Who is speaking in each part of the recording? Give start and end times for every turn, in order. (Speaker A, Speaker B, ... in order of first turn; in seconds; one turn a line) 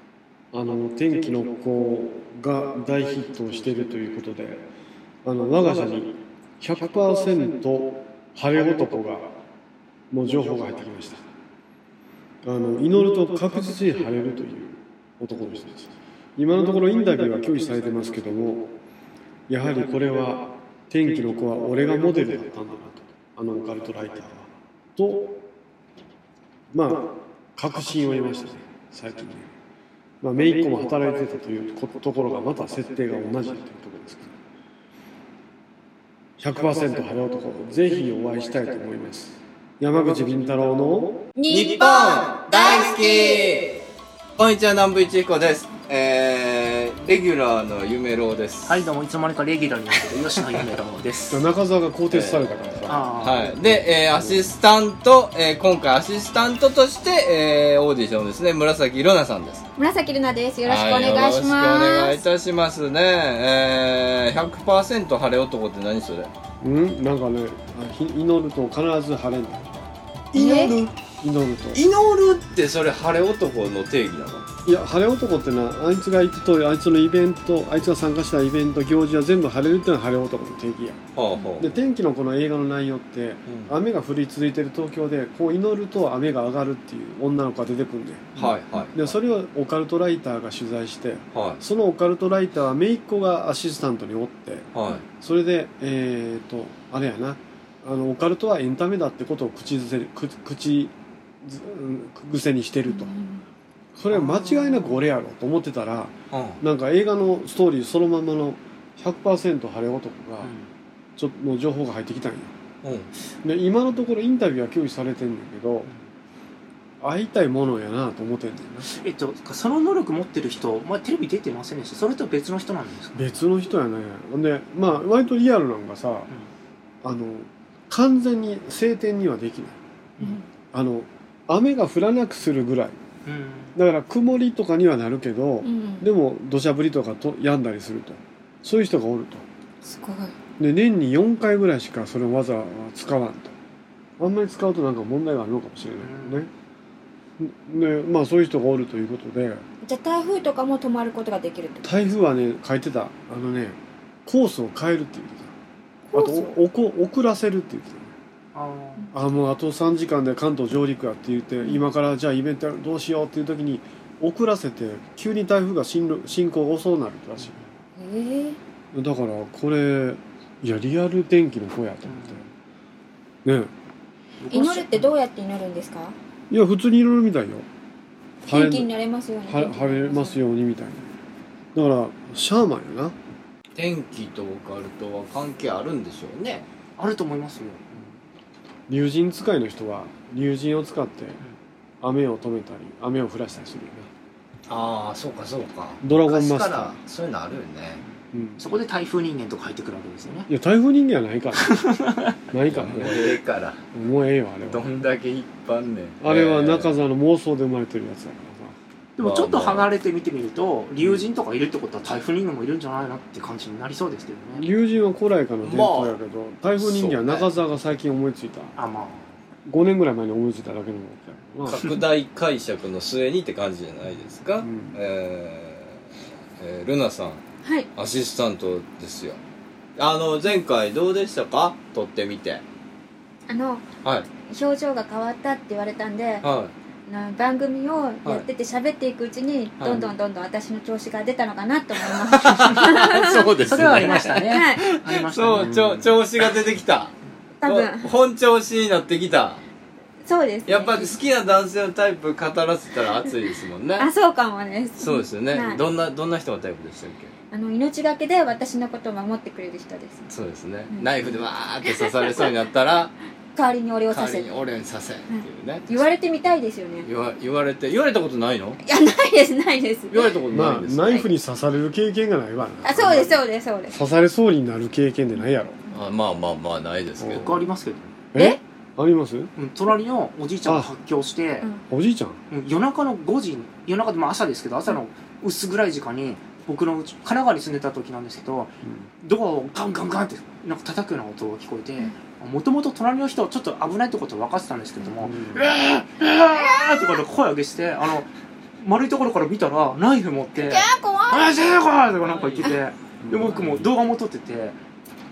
Speaker A: 0.5-4.7
Speaker A: 5.2-9.3
Speaker A: 10.1-11.2
Speaker A: 12.4-18.7
Speaker A: 19.5-25.4
Speaker A: 26.7-29.5
Speaker A: 30.2-34.4
Speaker A: 36.4-41.2
Speaker B: 41.4-43.4
Speaker C: 41.5-43.8
Speaker C: 44.4-48.8
Speaker D: 48.7-51.4
Speaker A: 51.3-54.5
Speaker C: 52.1-59.6
Speaker D: 52.9-53.5
Speaker B: 59.8-62.2
Speaker C: 60.6-66.3
Speaker A: 66.6-69.8
Speaker C: 70.3-70.9
Speaker B: 70.3-70.8
Speaker A: 71.0-71.8
Speaker C: 71.7-74.5
Speaker A: 74.6-81.0
Speaker C: 81.1-81.8
Speaker A: 81.6-103.1
Speaker C: 83.5-83.7
Speaker C: 88.3-89.1
Speaker C: 91.3-91.6
Speaker C: 94.7-95.0
Speaker B: 102.9-103.4
Speaker A: 103.9-110.5
Speaker D: 104.1-104.7
Speaker C: 106.3-106.6
Speaker D: 110.4-110.7
Speaker A: 111.2-112.5
Speaker C: 112.8-113.1
Speaker A: 113.4-115.9
Speaker A: 117.0-118.9
Speaker D: 119.0-123.4
Speaker A: 123.1-126.3
Speaker A: 127.0-129.8
Speaker B: 130.2-130.5
Speaker A: 130.7-133.0
Speaker D: 133.2-133.7
Speaker A: 133.7-139.4
Speaker B: 135.6-136.1
Speaker B: 139.8-140.3
Speaker A: 140.6-143.5
Speaker A: 144.2-146.5
Speaker D: 146.0-146.4
Speaker A: 147.4-149.6
Speaker B: 149.8-151.9
Speaker A: 151.8-155.5
Speaker B: 156.1-156.5
Speaker A: 156.1-158.1
Speaker D: 158.5-159.1
Speaker A: 159.1-167.6
Speaker B: 168.0-168.6
Speaker A: 168.9-172.4
Speaker D: 172.1-172.4
Speaker A: 173.4-173.7
Speaker D: 174.4-175.1
Speaker B: 174.5-176.2
Speaker A: 176.5-177.7
Speaker A: 178.4-178.9
Speaker B: 178.5-180.4
Speaker A: 179.5-181.1
Speaker A: 181.7-183.1
Speaker C: 183.8-186.7
Speaker D: 187.0-188.1
Speaker A: 188.9-191.4
Speaker A: 192.0-194.1
Speaker C: 194.7-198.0
Speaker A: 196.0-197.0
Speaker A: 198.3-198.6
Speaker D: 198.6-200.5
Speaker A: 200.5-201.8
Speaker D: 201.7-202.3
Speaker A: 202.5-203.4
Speaker C: 202.7-203.8
Speaker A: 203.9-204.9
Speaker C: 204.7-206.9
Speaker A: 206.2-208.7
Speaker D: 209.2-214.7
Speaker C: 209.2-209.9
Speaker A: 214.5-218.8
Speaker C: 215.6-216.2
Speaker C: 216.8-217.5
Speaker D: 218.8-219.3
Speaker A: 219.7-221.9
Speaker C: 221.7-226.0
Speaker A: 224.6-225.0
Speaker C: 226.6-227.4
Speaker B: 227.6-227.9
Speaker C: 227.9-229.4
Speaker C: 230.0-232.6
Speaker B: 233.5-233.8
Speaker B: 234.4-236.4
Speaker C: 236.4-236.7
Speaker B: 237.1-243.5
Speaker C: 239.8-240.1
Speaker C: 242.2-249.6
Speaker D: 243.6-246.1
Speaker B: 244.5-244.8
Speaker A: 245.5-245.9
Speaker B: 247.6-248.1
Speaker B: 250.2-251.1
Speaker C: 250.7-254.1
Speaker B: 254.0-255.8
Speaker C: 255.0-257.3
Speaker B: 257.5-260.3
Speaker C: 260.3-263.1
Speaker B: 261.8-262.5
Speaker B: 263.5-264.5
Speaker C: 264.1-266.0
Speaker B: 265.3-267.1
Speaker C: 267.0-268.8
Speaker B: 268.8-270.2
Speaker C: 270.1-271.2
Speaker A: 270.5-275.8
Speaker B: 272.8-274.0
Speaker C: 275.9-277.6
Speaker A: 277.2-277.4
Speaker D: 277.3-278.1
Speaker A: 278.3-279.5
Speaker D: 279.6-281.7
Speaker A: 280.6-280.9
Speaker A: 281.9-282.4
Speaker D: 282.5-304.8
Speaker A: 288.8-289.1
Speaker A: 295.2-295.7
Speaker B: 300.6-301.5
Speaker C: 302.3-302.8
Speaker A: 303.2-303.6
Speaker C: 303.5-303.9